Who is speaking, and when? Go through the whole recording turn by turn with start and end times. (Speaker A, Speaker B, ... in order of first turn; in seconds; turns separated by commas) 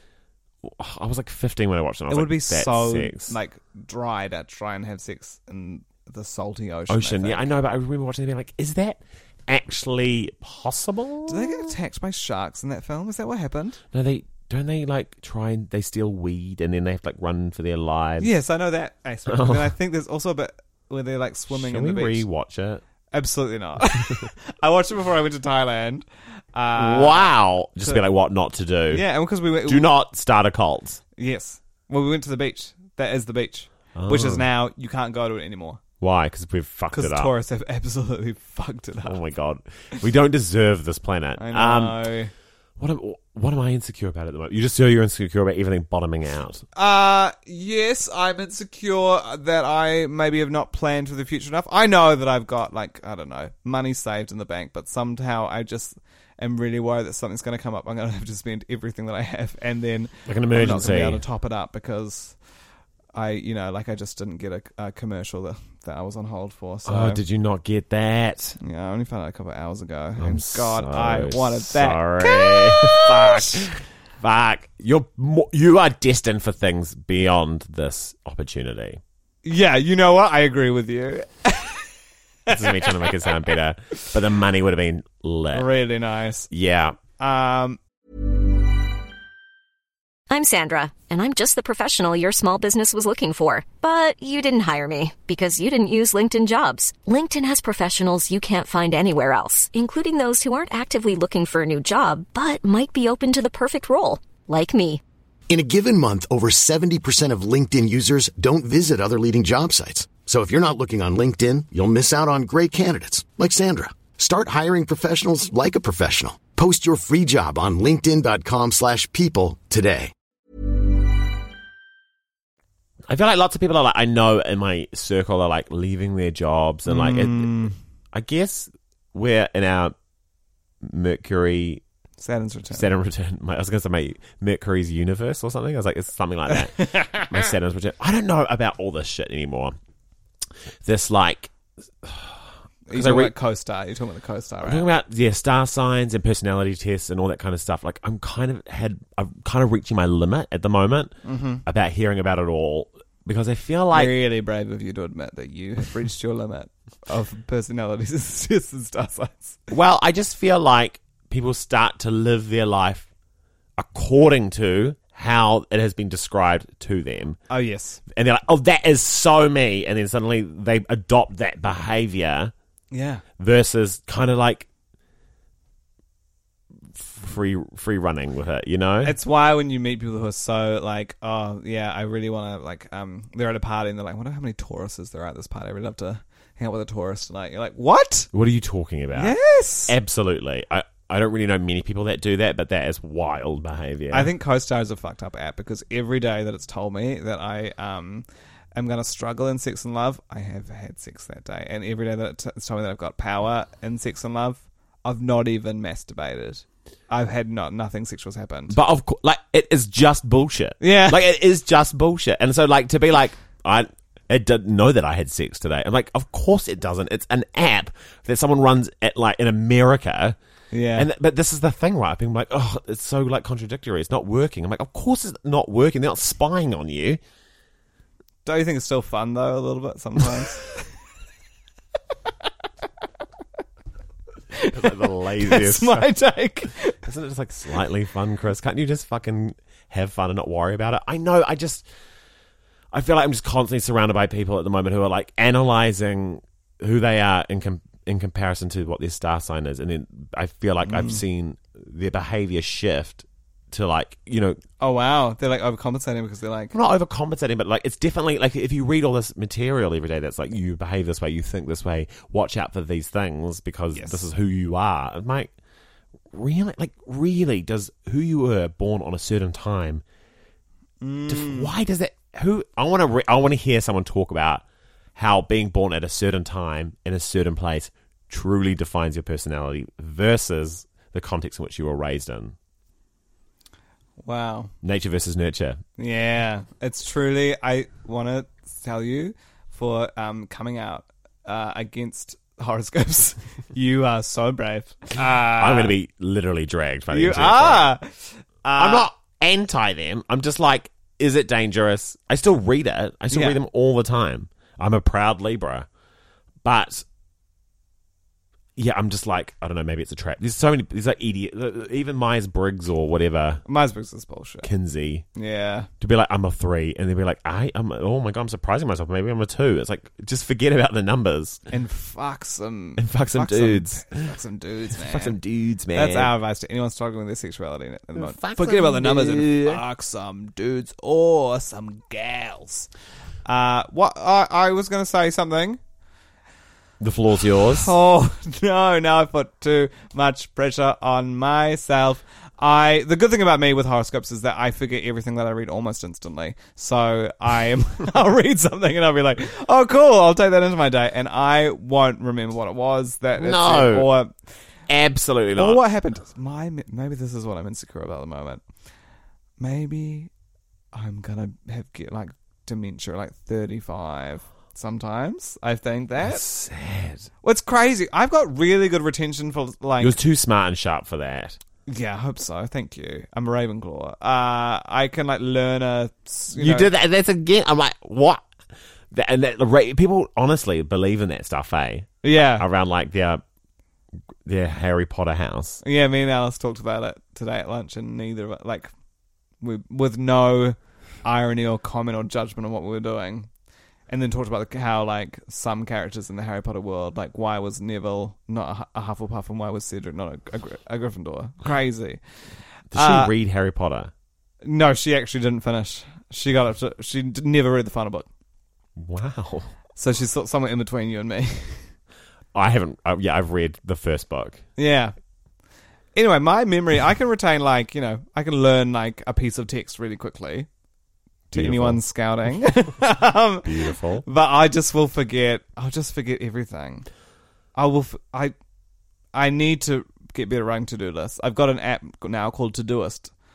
Speaker A: 0.6-3.4, Speaker B: 2.1-7.5, Speaker A: 6.9-11.7, Speaker B: 11.2-13.8, Speaker A: 13.9-18.3, Speaker B: 18.2-22.2, Speaker A: 19.3-19.7, Speaker A: 21.5-22.8, Speaker B: 23.1-28.0, Speaker A: 26.8-29.0, Speaker B: 28.9-29.9, Speaker A: 29.6-31.0, Speaker B: 31.1-35.8, Speaker A: 33.9-34.4, Speaker A: 36.0-37.3, Speaker B: 36.9-39.2, Speaker A: 39.0-42.0, Speaker B: 41.4-42.3, Speaker A: 42.8-46.6, Speaker B: 46.7-62.4, Speaker A: 60.2-61.2, Speaker B: 63.1-67.2, Speaker A: 66.8-68.6, Speaker B: 68.6-73.7, Speaker A: 70.2-79.0, Speaker B: 79.4-81.9, Speaker B: 82.5-83.3, Speaker A: 82.5-85.7, Speaker B: 85.5-86.5, Speaker A: 86.5-87.0, Speaker B: 87.2-87.8, Speaker C: 90.3-105.0, Speaker D: 105.5-120.1, Speaker A: 123.1-127.5, Speaker B: 126.8-127.7, Speaker A: 128.1-129.9, Speaker A: 130.8-131.8, Speaker B: 132.2-132.9, Speaker A: 132.7-139.8, Speaker B: 136.5-137.5, Speaker A: 140.8-143.3, Speaker B: 142.9-144.9, Speaker A: 144.6-154.2, Speaker B: 151.2-151.6, Speaker B: 153.9-159.7, Speaker A: 159.7-163.1, Speaker A: 163.8-167.4, Speaker B: 167.5-168.0, Speaker A: 168.1-172.5, Speaker B: 172.9-173.2, Speaker A: 173.4-174.7, Speaker A: 176.9-179.2, Speaker B: 179.0-188.3, Speaker A: 188.3-189.3, Speaker B: 189.1-189.9, Speaker A: 189.9-194.3, Speaker B: 194.1-208.8, Speaker A: 208.7-220.3, Speaker B: 210.8-211.2, Speaker B: 220.7-221.1, Speaker A: 220.9-227.2, Speaker B: 228.4-230.7, Speaker B: 234.5-237.0, Speaker A: 234.7-236.1, Speaker A: 237.0-241.9, Speaker A: 242.9-254.6, Speaker B: 250.8-251.2, Speaker B: 254.8-256.7, Speaker A: 256.7-265.5, Speaker B: 263.9-264.2, Speaker A: 266.3-270.0, Speaker B: 271.0-271.7, Speaker A: 271.3-274.6, Speaker A: 275.1-282.5, Speaker B: 284.2-284.7, Speaker A: 284.8-285.8, Speaker B: 286.0-295.9, Speaker A: 295.4-297.9, Speaker B: 297.1-299.1, Speaker A: 298.8-305.9, Speaker B: 303.3-303.6, Speaker A: 306.6-307.0, Speaker A: 308.8-313.6, Speaker B: 313.6-314.7, Speaker A: 314.6-315.2, Speaker B: 315.3-315.9, Speaker A: 316.0-321.6, Speaker B: 321.7-325.4, Speaker A: 323.0-324.3, Speaker A: 325.0-326.3, Speaker B: 325.9-332.9, Speaker A: 328.1-329.8, Speaker B: 333.4-335.8, Speaker A: 337.0-337.9, Speaker B: 337.5-354.3, Speaker A: 353.4-354.1, Speaker A: 354.9-355.8, Speaker B: 355.6-358.6, Speaker B: 359.6-360.3, Speaker B: 360.9-366.4, Speaker A: 366.2-367.3, Speaker B: 367.4-370.1, Speaker A: 370.0-371.6, Speaker B: 371.9-376.9, Speaker A: 376.5-378.4, Speaker A: 379.1-383.4, Speaker B: 382.2-382.6, Speaker A: 384.4-385.8, Speaker B: 385.8-388.9, Speaker B: 389.6-393.5, Speaker B: 394.1-402.2, Speaker A: 402.9-404.1, Speaker B: 402.9-403.3, Speaker B: 404.6-408.3, Speaker A: 409.0-409.7, Speaker B: 410.0-411.9, Speaker A: 412.5-414.6, Speaker B: 414.8-415.1, Speaker B: 416.1-420.7, Speaker B: 421.5-427.1, Speaker A: 421.5-422.0, Speaker A: 423.6-424.2, Speaker B: 427.7-428.5, Speaker B: 429.3-433.3